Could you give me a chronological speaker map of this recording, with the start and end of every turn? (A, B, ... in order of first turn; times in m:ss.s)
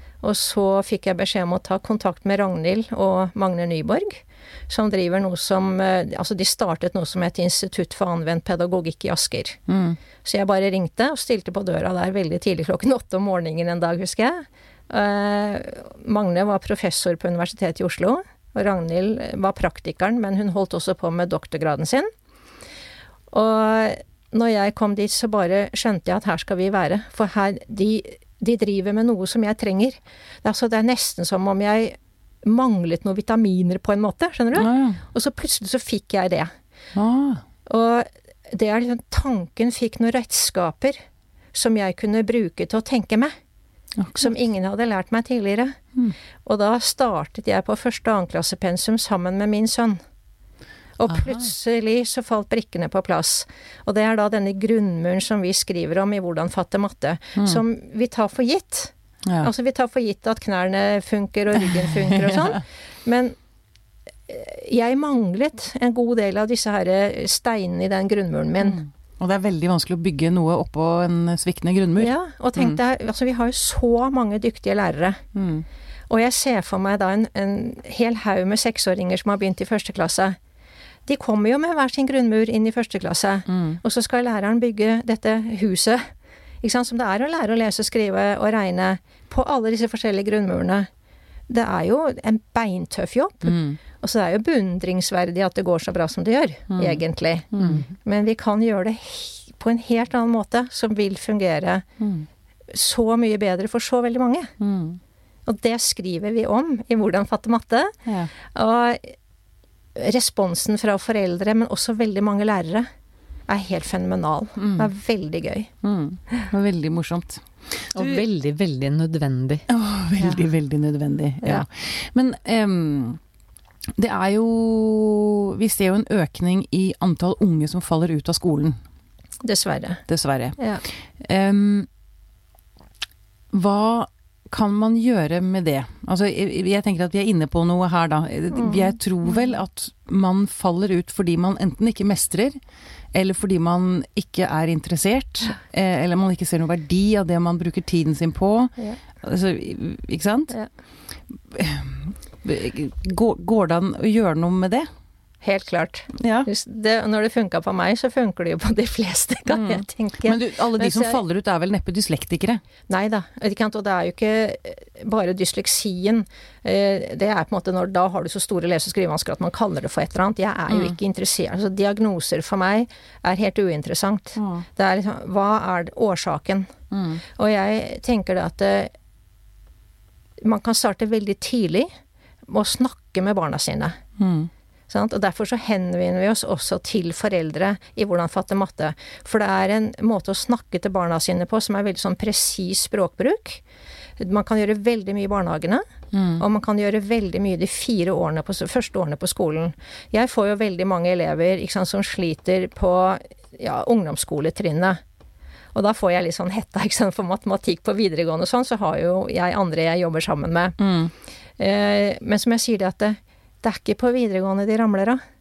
0:00.2-0:09.6 A
0:09.7-0:10.0 B
0:10.2-0:22.1 A
0:23.3-0:36.5 A
0:34.5-0:35.0 B
0:36.9-0:37.4 B
0:37.7-0:41.0 A
0:41.5-0:43.3 A
0:44.0-0:44.3 B
0:44.2-0:45.8 A
0:46.4-0:50.0 A
0:51.0-1:03.3 A
0:57.4-0:57.6 B
0:59.2-0:59.5 B
1:04.3-1:08.8 A
1:08.6-1:12.8 B
1:12.0-1:15.2 A
1:15.3-1:15.6 B
1:16.1-1:20.4 A
1:21.0-1:26.1 A
1:23.5-1:23.8 B
1:26.6-1:30.9 A
1:31.5-1:41.8 A
1:33.4-1:33.8 B
1:36.7-1:37.0 B
1:37.5-1:37.8 B
1:37.6-1:37.8 C
1:42.0-1:42.2 B
1:42.7-1:44.5 A
1:44.6-1:45.0 B
1:45.4-1:47.9 A
1:48.0-1:48.3 B
1:48.4-1:49.1 A
1:49.9-1:52.9 A
1:53.5-1:55.7 A
1:54.6-1:54.9 B
1:55.8-1:58.2 B
1:57.9-1:59.6 C
1:59.7-2:03.2 B
2:04.0-2:08.8 B
2:09.4-2:10.0 A
2:10.1-2:11.9 B
2:13.5-2:22.6 B
2:18.5-2:18.9 A
2:23.1-2:30.6 B
2:31.5-2:34.9 B
2:35.4-2:41.2 A
2:36.1-2:36.5 B
2:39.5-2:42.6 B
2:42.9-2:56.7 A
2:50.7-2:50.9 B
2:54.4-2:54.6 B
2:56.9-2:57.2 B
2:57.3-2:58.9 A
3:00.4-3:01.9 A
3:02.5-3:04.0 A
3:04.2-3:04.5 B
3:04.9-3:13.6 A
3:14.2-3:15.8 A
3:16.1-3:16.4 B
3:16.4-3:25.0 A
3:25.7-3:30.8 A
3:30.8-3:31.1 B
3:31.6-3:35.2 A